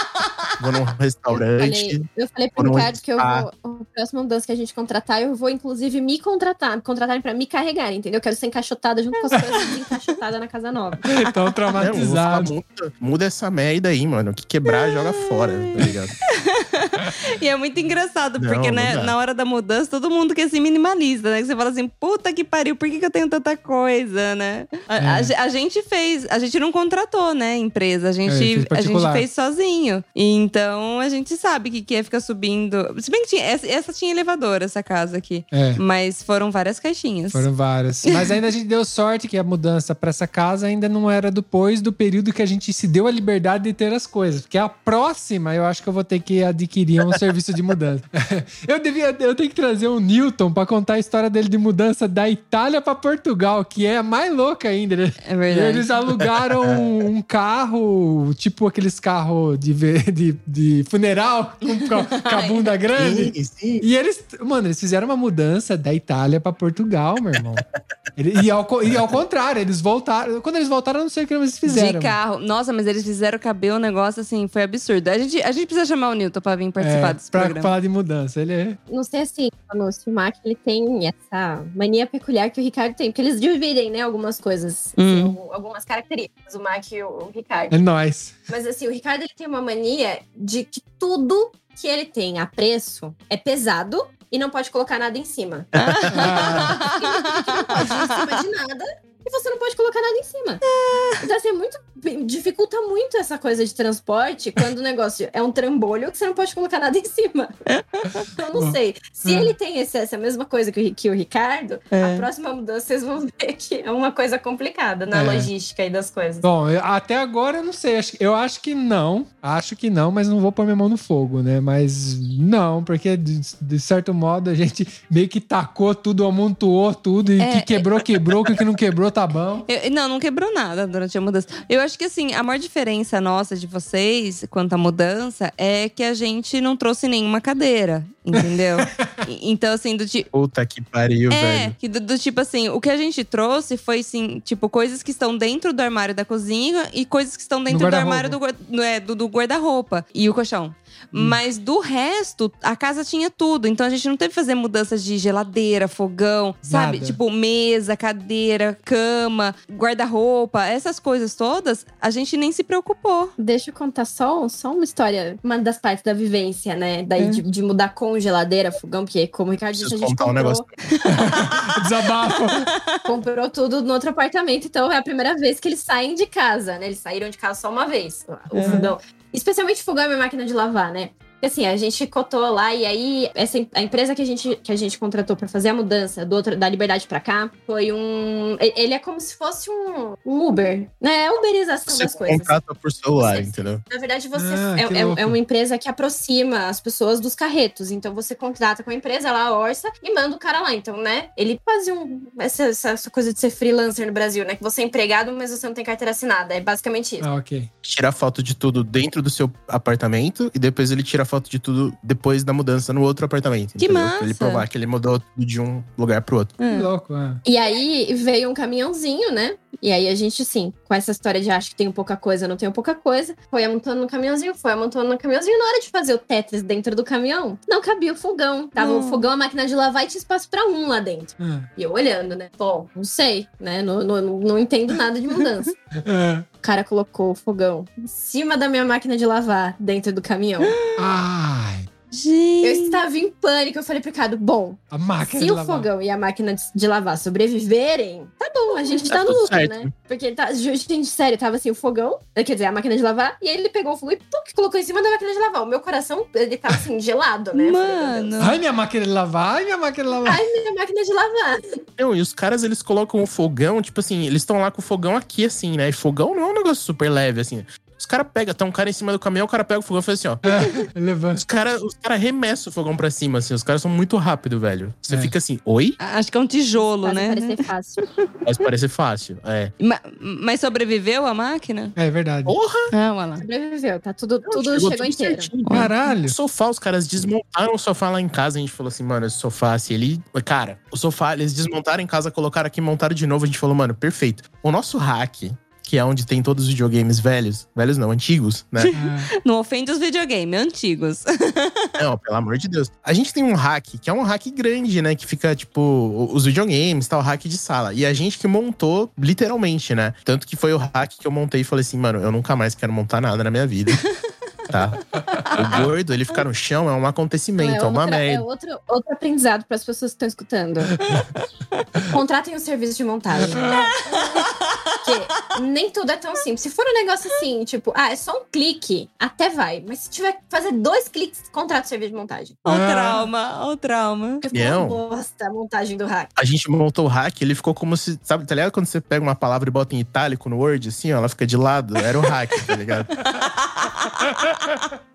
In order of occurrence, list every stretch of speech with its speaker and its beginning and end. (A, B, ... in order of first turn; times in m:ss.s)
0:00.6-0:02.0 A
0:01.3-0:11.1 B
0:02.6-0:03.5 A
0:11.1-0:12.5 C
0:11.8-0:16.2 A
0:14.7-0:37.5 D
0:18.4-0:19.1 A
0:25.0-0:25.3 C
0:28.3-0:29.3 C
0:35.5-0:35.8 C
0:37.3-1:07.6 C
0:55.3-0:55.9 D
1:01.9-1:02.7 D
1:03.0-1:03.8 A
1:08.2-1:12.2 C
1:11.7-1:17.7 D
1:16.8-1:18.8 C
1:18.9-1:27.8 B
1:25.0-1:25.4 D
1:27.7-1:28.4 C
1:28.5-1:40.6 B
1:35.8-1:36.2 A
1:35.8-1:36.9 D
1:36.1-1:36.8 C
1:37.8-1:38.3 D
1:40.9-1:41.2 D
1:41.2-1:47.5 B
1:47.7-1:48.2 D
1:48.3-1:56.5 B
1:48.6-1:49.5 C
1:51.9-1:52.3 D
1:55.1-1:55.5 C
1:56.4-2:09.7 C
2:07.4-2:08.0 D
2:09.7-2:20.3 D
2:18.4-2:19.1 C
2:20.3-2:21.7 A
2:21.3-2:43.3 D
2:27.7-2:28.4 C
2:31.1-2:31.4 C
2:36.6-2:37.2 C
2:43.4-2:50.7 B
2:49.8-2:50.6 A
2:51.0-2:51.6 D
2:51.1-2:52.7 C
2:52.5-2:52.9 D
2:53.0-3:12.6 B
2:58.5-2:58.8 D
2:58.6-2:58.9 C
3:11.9-3:13.8 A
3:13.2-3:27.3 B
3:14.4-3:15.4 C
3:27.2-3:27.7 C
3:27.8-3:36.6 A
3:33.8-3:34.7 D
3:36.6-3:36.9 D
3:36.7-3:37.4 C
3:37.4-3:55.7 B
3:48.8-3:49.3 D
3:51.4-3:51.7 C
3:56.0-3:56.5 C
3:56.6-4:00.8 B
4:00.6-4:01.0 D
4:01.0-4:01.9 C
4:02.1-4:03.0 D
4:02.6-4:18.4 B
4:04.9-4:05.9 C
4:09.1-4:09.9 A
4:17.6-4:18.6 D
4:18.4-4:20.4 C
4:20.2-4:21.8 B
4:22.0-4:30.4 A
4:30.4-4:31.4 C
4:31.4-4:36.0 A
4:35.1-4:35.3 C
4:36.0-4:38.2 D
4:36.7-4:38.0 B
4:38.4-4:39.7 A
4:39.8-4:42.0 D
4:42.0-4:42.6 C
4:42.5-4:42.9 A
4:42.9-4:43.4 D
4:43.4-4:45.5 B
4:44.4-4:58.9 A
4:45.7-4:45.9 D
4:45.7-4:46.4 C
4:58.8-5:01.9 D
4:58.9-4:59.3 C
5:02.0-5:14.1 A
5:14.7-5:18.4 A
5:15.4-5:15.8 D
5:17.6-5:20.9 B
5:21.1-5:21.8 D
5:22.1-5:23.8 B
5:23.6-5:23.8 C
5:23.7-5:24.6 D
5:25.0-5:32.6 B
5:32.6-5:34.4 D
5:32.7-5:33.3 C
5:34.4-5:36.3 B
5:34.5-5:35.0 A
5:36.4-5:43.2 A
5:43.2-5:44.8 D